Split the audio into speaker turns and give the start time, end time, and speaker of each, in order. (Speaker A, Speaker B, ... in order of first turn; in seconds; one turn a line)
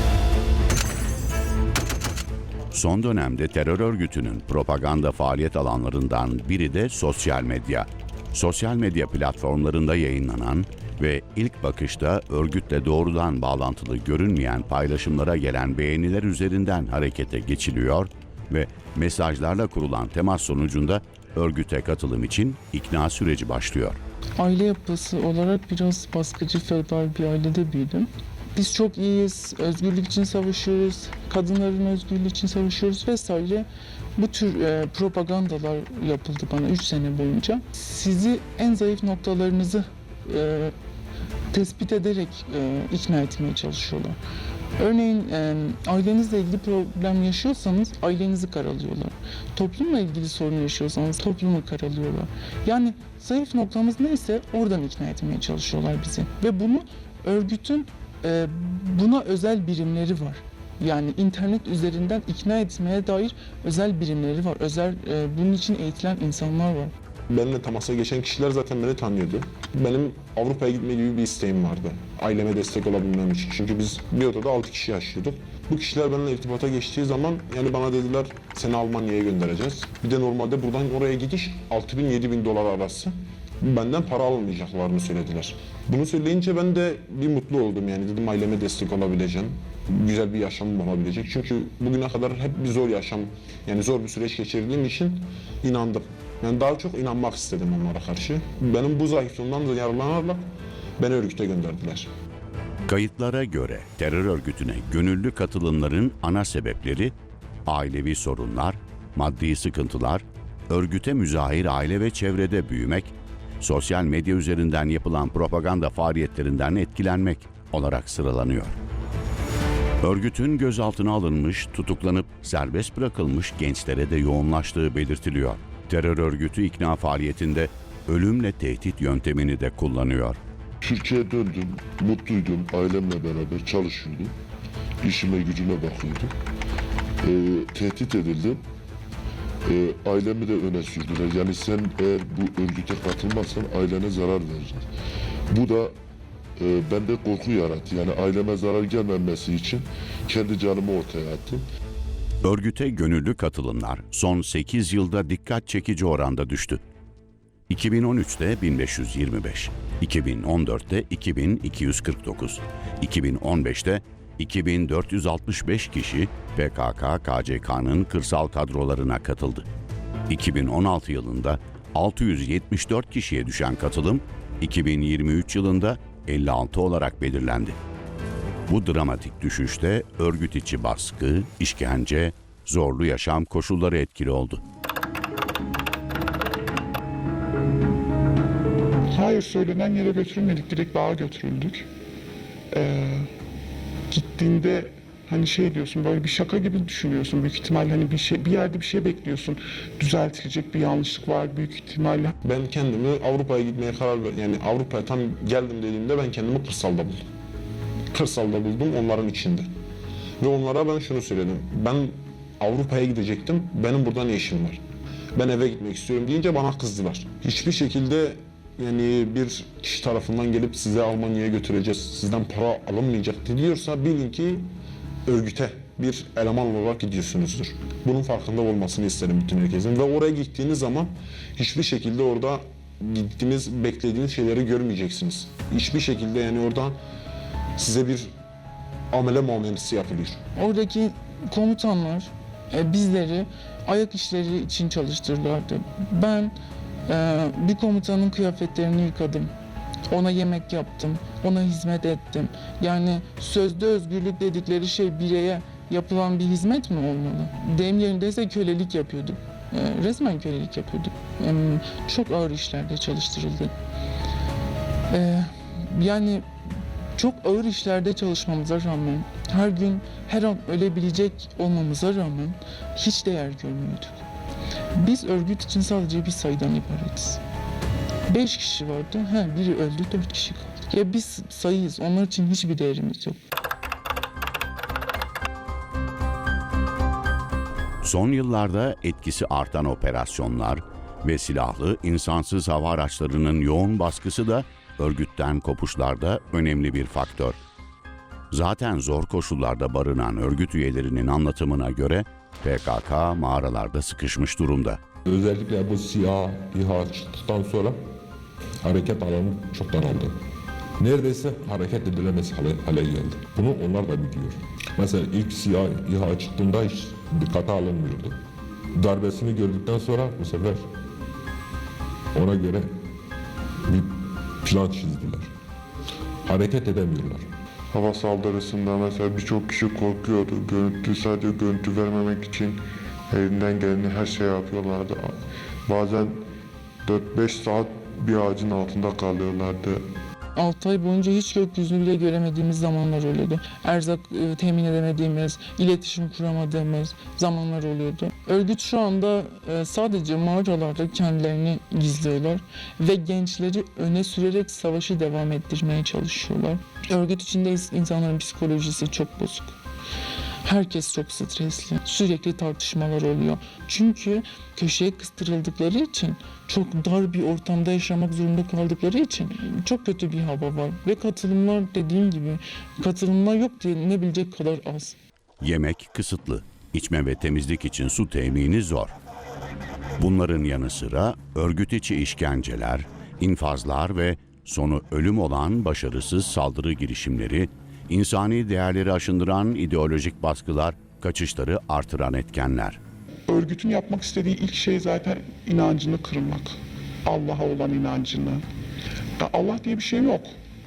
Speaker A: 2.7-24.0
Speaker B: 24.4-33.6
Speaker B: 34.2-40.7
Speaker B: 41.5-44.2
Speaker B: 44.8-66.9
Speaker C: 67.3-102.1
Speaker A: 102.9-107.1
Speaker A: 107.7-118.8
Speaker A: 120.0-130.4
Speaker D: 130.8-134.3
Speaker D: 135.0-136.3
Speaker D: 137.2-138.6
Speaker D: 139.7-144.9
Speaker D: 145.5-145.9
Speaker D: 146.6-151.6
Speaker A: 152.4-156.8
Speaker A: 157.7-169.7
Speaker A: 170.3-177.8
Speaker A: 178.7-184.6
Speaker E: 189.1-191.9
Speaker E: 192.7-193.3
Speaker E: 194.1-202.3
Speaker C: 202.4-207.2
Speaker C: 208.1-209.7
Speaker C: 210.4-214.8
Speaker C: 215.3-224.7
Speaker C: 225.2-237.0
Speaker C: 237.7-238.3
Speaker C: 239.1-240.4
Speaker B: 240.6-246.5
Speaker B: 247.1-249.5
Speaker B: 250.1-263.7
Speaker B: 265.1-266.5
Speaker B: 267.1-274.2
Speaker B: 274.9-277.4
Speaker B: 278.3-283.4
Speaker A: 288.0-297.6
Speaker A: 298.5-305.0
Speaker F: 305.2-308.0
Speaker F: 308.8-310.4
Speaker F: 311.0-318.4
Speaker F: 318.9-320.8
Speaker F: 322.3-323.0
Speaker F: 323.8-325.5
Speaker F: 326.4-327.5
Speaker G: 327.9-335.3
Speaker G: 335.9-336.4
Speaker G: 337.0-340.0
Speaker B: 340.5-359.8
Speaker B: 360.6-375.2
Speaker A: 375.6-379.1
Speaker A: 380.2-393.0
Speaker E: 393.5-398.6
Speaker E: 399.4-400.5